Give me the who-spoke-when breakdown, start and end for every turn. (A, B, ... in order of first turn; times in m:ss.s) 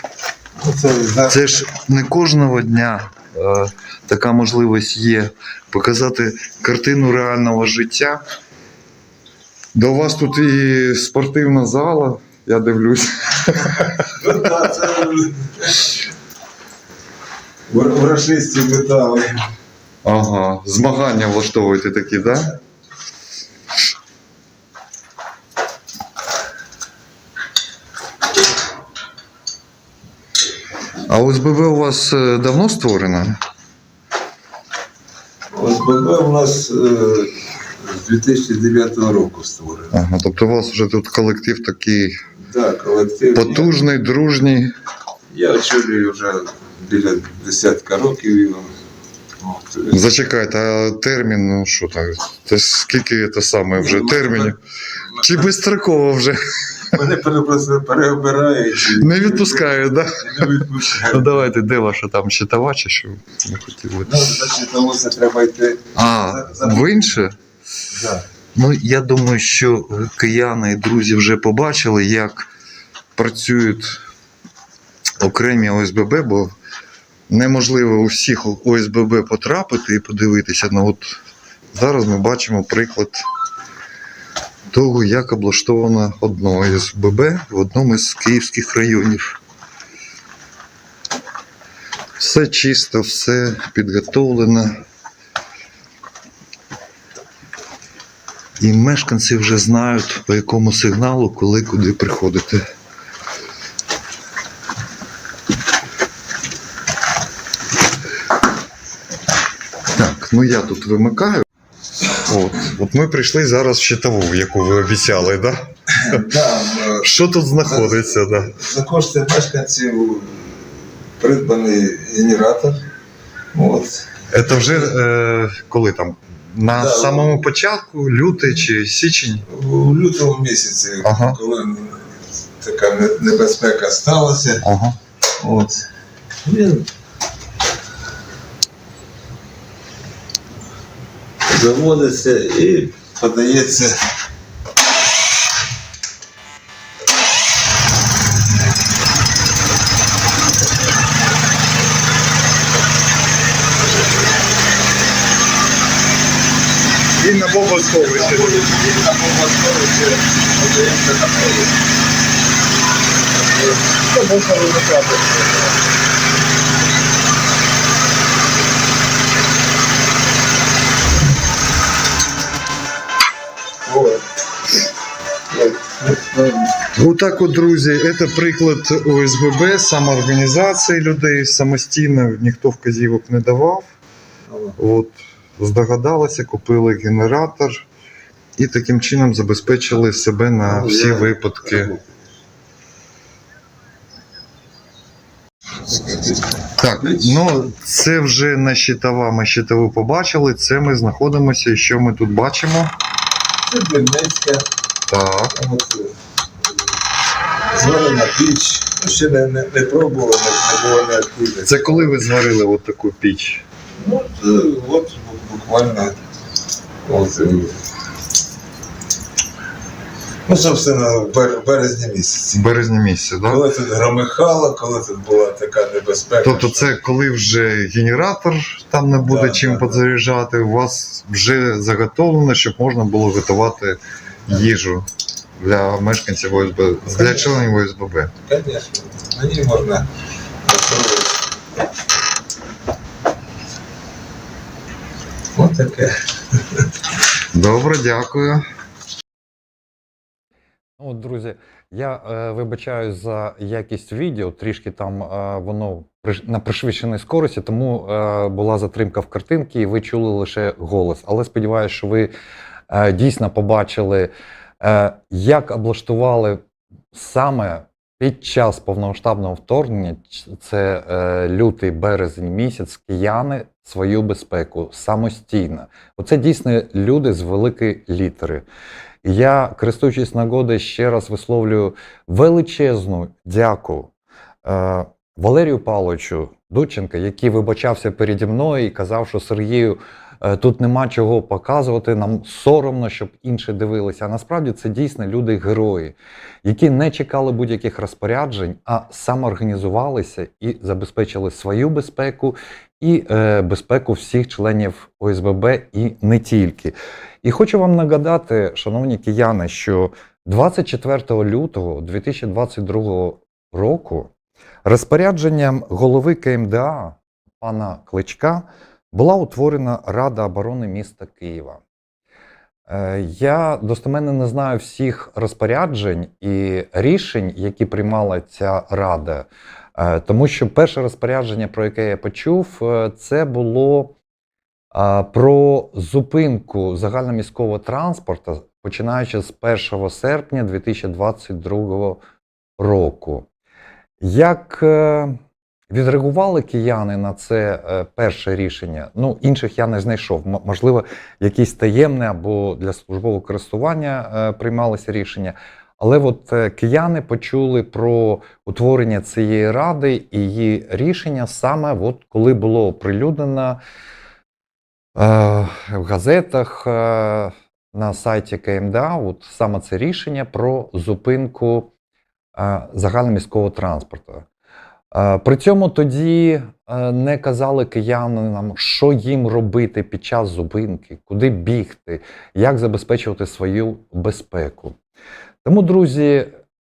0:00.6-0:01.5 A
0:01.3-0:08.2 B
0:09.8-0:14.1 B
0:14.1-0:16.0 A
0:17.7-0:19.3 A
0:20.0-0:22.5 B
0:31.1-0:33.4 B
0:35.5-0:40.0 A
0:39.9-0:42.2 B
0:42.5-0:43.8 A
0:43.4-0:44.7 B
0:45.3-0:48.7 A
0:49.4-0:50.2 A
0:49.9-0:54.6 B
0:53.8-0:54.6 A
0:55.1-0:55.5 A
0:55.2-0:57.0 B
0:56.9-1:01.5 A
0:58.9-1:04.4 B
1:04.0-1:07.1 A
1:06.0-1:07.4 B
1:07.9-1:08.2 A
1:08.6-1:12.5 B
1:13.2-1:14.0 B
1:15.2-1:16.5 B
1:17.3-1:21.2 B
1:21.7-1:23.2 B
1:24.7-1:29.4 B
1:32.2-1:34.7 B
1:38.6-1:42.6 B
1:49.9-1:51.4 B
1:52.3-1:55.6 B
1:56.0-2:02.8 A
1:57.0-1:58.5 B
2:03.5-2:04.9 A
2:04.3-2:09.4 B
2:06.7-2:07.5 A
2:09.5-2:14.6 A
2:11.0-2:11.4 B
2:14.6-2:15.0 B
2:15.4-2:15.8 A
2:16.5-2:16.9 A
2:21.5-2:24.0 A
2:37.2-2:38.6 B
2:37.8-2:41.8 A
2:37.9-2:38.4 C
2:43.3-2:45.8 A
2:53.9-2:54.3 A
2:55.5-2:56.8 A
2:57.0-3:03.9 B
3:04.5-3:04.8 A
3:04.8-3:07.9 B
3:08.6-3:11.9 B
3:10.6-3:12.2 A
3:15.9-3:17.6 A
3:16.8-3:22.9 B
3:23.6-3:24.7 A
3:25.1-3:25.5 B
3:25.5-3:26.1 A
3:27.7-3:32.1 A
3:31.7-3:33.6 B
3:34.0-3:36.2 A
3:37.1-3:37.8 A
3:40.5-3:42.7 A
3:42.5-3:43.6 B
3:43.5-3:47.0 A
3:46.4-3:55.1 B
3:49.2-3:50.0 A
3:55.6-3:58.3 B
3:57.1-3:57.8 A
3:58.5-4:00.1 A
4:00.6-4:01.4 A
4:05.6-4:06.8 A
4:07.6-4:08.7 B
4:11.0-4:22.3 C
4:22.9-4:26.6 C
4:27.1-4:38.6 C
4:39.2-4:44.1 C
4:44.6-5:14.3 C
5:14.8-5:21.8 C
5:22.9-5:34.2 C
5:34.9-5:42.2 C
5:42.8-5:43.5 C
5:44.2-5:45.4 C
5:45.9-6:03.8 C
6:05.2-6:11.9 C
6:12.6-6:14.5 C
6:15.1-6:25.0 C
6:25.6-6:26.6 C